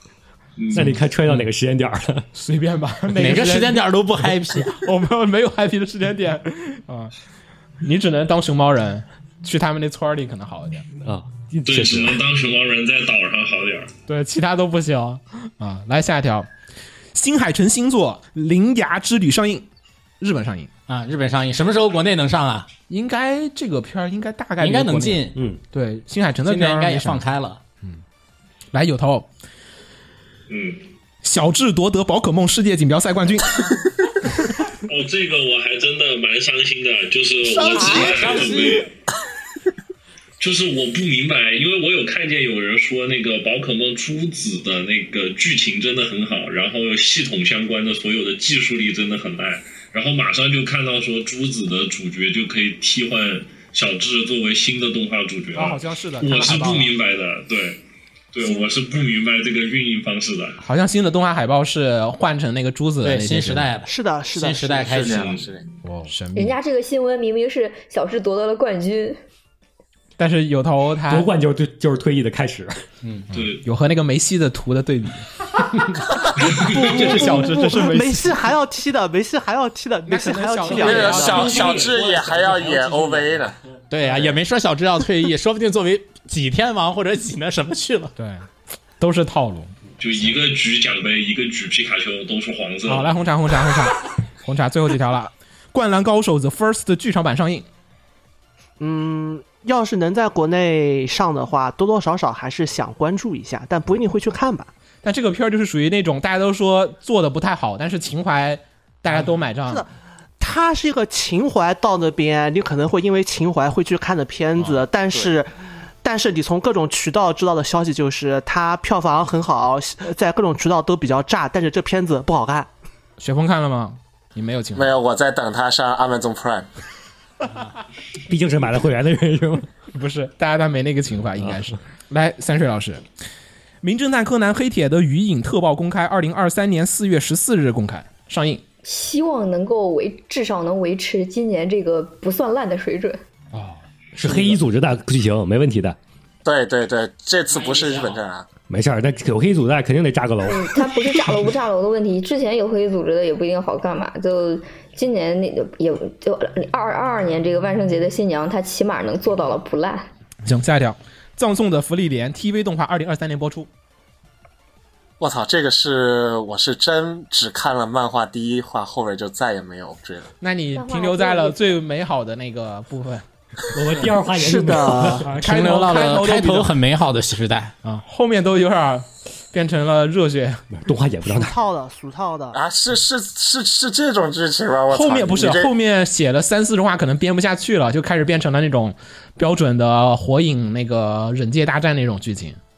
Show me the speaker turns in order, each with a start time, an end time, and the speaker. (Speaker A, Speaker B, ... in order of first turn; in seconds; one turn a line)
Speaker A: 0.6-1.0
Speaker B: 0.7-2.3
Speaker C: 2.4-3.8
Speaker D: 3.2-4.8
Speaker C: 4.8-7.1
Speaker C: 7.8-10.8
Speaker B: 11.0-12.2
Speaker A: 11.7-13.9
Speaker C: 14.1-16.5
Speaker C: 17.1-19.6
Speaker C: 20.2-20.7
Speaker D: 20.9-22.7
Speaker C: 22.9-27.2
Speaker D: 24.6-25.4
Speaker B: 25.4-25.6
Speaker D: 26.4-27.6
Speaker C: 28.7-29.3
Speaker A: 30.5-30.8
Speaker C: 31.2-33.6
Speaker A: 34.9-38.9
Speaker D: 37.5-38.9
Speaker A: 40.4-57.8
Speaker C: 55.5-56.9
Speaker A: 58.3-60.6
Speaker C: 60.6-63.7
Speaker D: 63.0-65.3
Speaker E: 63.9-64.9
Speaker F: 64.8-65.7
Speaker A: 65.0-65.5
Speaker C: 65.8-66.6
Speaker G: 66.3-69.2
Speaker C: 70.2-71.3
Speaker B: 71.1-72.8
Speaker D: 73.0-73.3
Speaker A: 73.3-73.6
Speaker C: 73.3-75.3
Speaker C: 76.5-78.4
Speaker A: 76.5-76.9
Speaker E: 76.6-81.4
Speaker C: 80.1-81.6
Speaker F: 80.8-83.6
Speaker A: 81.1-82.1
Speaker D: 81.5-83.1
Speaker D: 83.9-88.1
Speaker C: 88.2-90.3
Speaker A: 90.0-93.1
Speaker C: 92.9-97.7
Speaker E: 98.8-104.7
Speaker C: 105.0-109.8
Speaker E: 110.4-122.7
Speaker C: 123.2-124.9
Speaker F: 124.8-126.7
Speaker B: 128.3-129.7
Speaker C: 129.9-133.0
Speaker C: 133.8-138.6
Speaker G: 138.8-143.2
Speaker C: 143.5-144.5
Speaker B: 144.1-146.0
Speaker F: 146.4-148.5
Speaker D: 147.5-148.2
Speaker B: 148.7-150.8
Speaker G: 150.5-160.1
Speaker C: 160.4-163.7
Speaker F: 165.2-170.3
Speaker C: 170.4-173.2
Speaker G: 170.8-171.8
Speaker B: 173.7-175.3
Speaker E: 174.3-175.2
Speaker C: 175.2-176.7
Speaker D: 175.3-177.7
Speaker C: 177.8-180.7
Speaker B: 180.7-181.6
Speaker E: 181.2-182.6
Speaker F: 182.5-185.7
Speaker C: 184.9-192.6